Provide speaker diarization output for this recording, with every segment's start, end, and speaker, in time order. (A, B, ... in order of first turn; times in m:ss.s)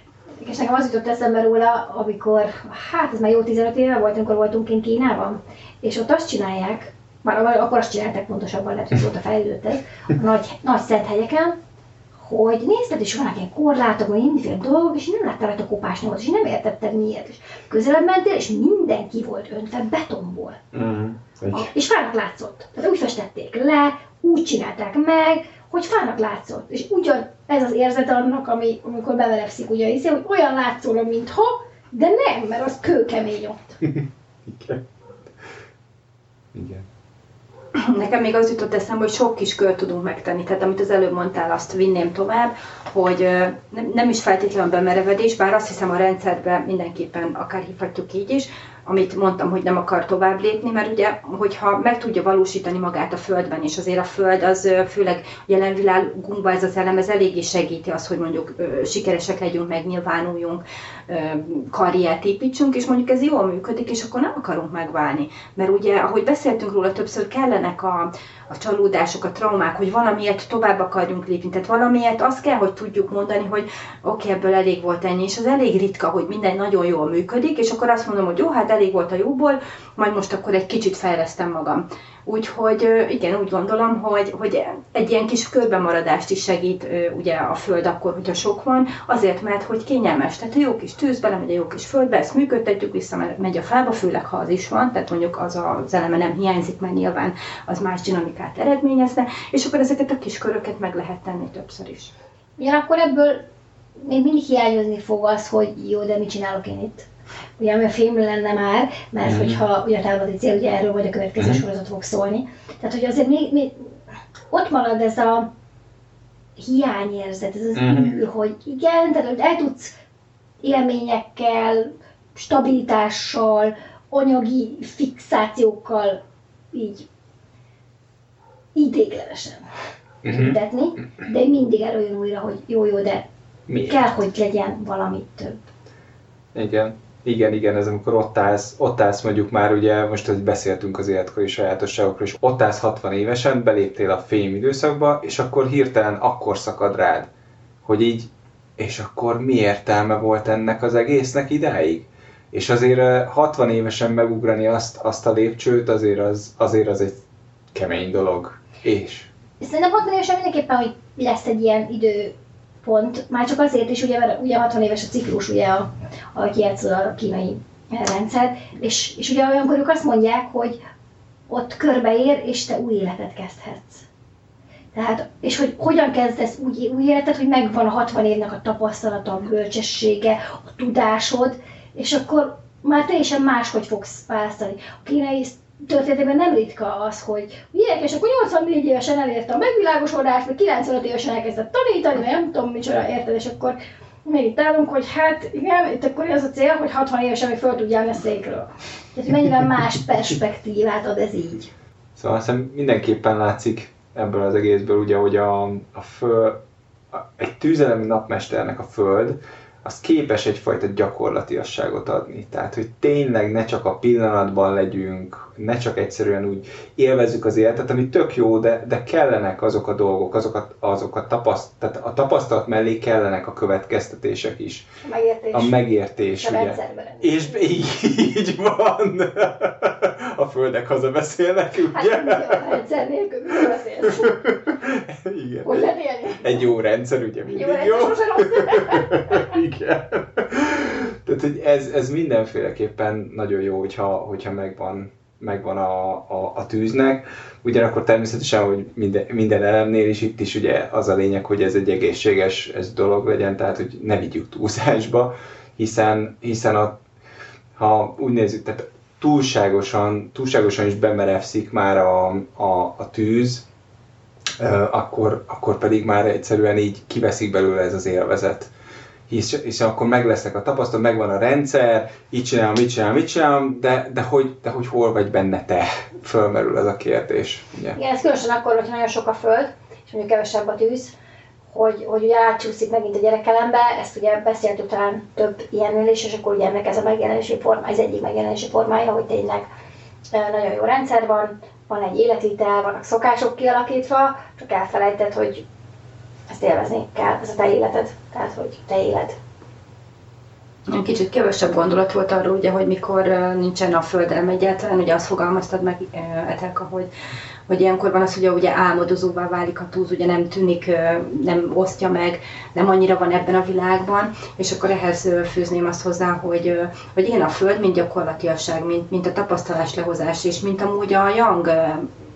0:00.4-0:11.6 A
0:12.1-0:20.6 A
0:20.7-0:21.7 B
0:21.5-0:33.7 A
0:33.8-0:34.8 B
0:36.5-0:36.8 B
0:37.7-1:42.1 C
1:42.6-1:43.5 A
1:44.0-1:47.1 A
1:47.6-1:53.9 A
1:49.2-1:49.6 B
1:51.4-1:51.6 B
1:54.5-1:55.5 A
1:56.6-1:59.9 A
1:57.7-1:58.2 B
2:00.6-2:06.2 A
2:06.7-2:07.1 A
2:08.7-2:09.6 A
2:10.2-2:10.6 B
2:10.3-2:13.2 A
2:13.7-2:14.0 B
2:13.8-2:15.6 A
2:16.5-2:27.3 B
2:27.8-2:37.2 B
2:37.7-2:39.3 B
2:39.6-2:50.8 A
2:51.5-2:54.0 A
2:54.9-3:21.7 A
3:22.2-3:26.6 B
3:27.1-3:44.8 B
3:45.0-3:45.8 A
3:45.5-3:52.7 B
3:46.4-3:47.5 A
3:51.9-3:54.4 A
3:54.4-4:17.0 B
3:55.6-3:56.7 A
3:57.5-3:59.4 A
4:17.8-4:23.6 B
4:24.6-4:28.7 B
4:29.3-4:38.0 B
4:37.9-4:41.1 A
4:41.7-4:49.6 A
4:50.3-4:55.6 A
4:56.5-4:59.4 A
5:00.9-5:07.1 C
5:07.7-5:22.1 C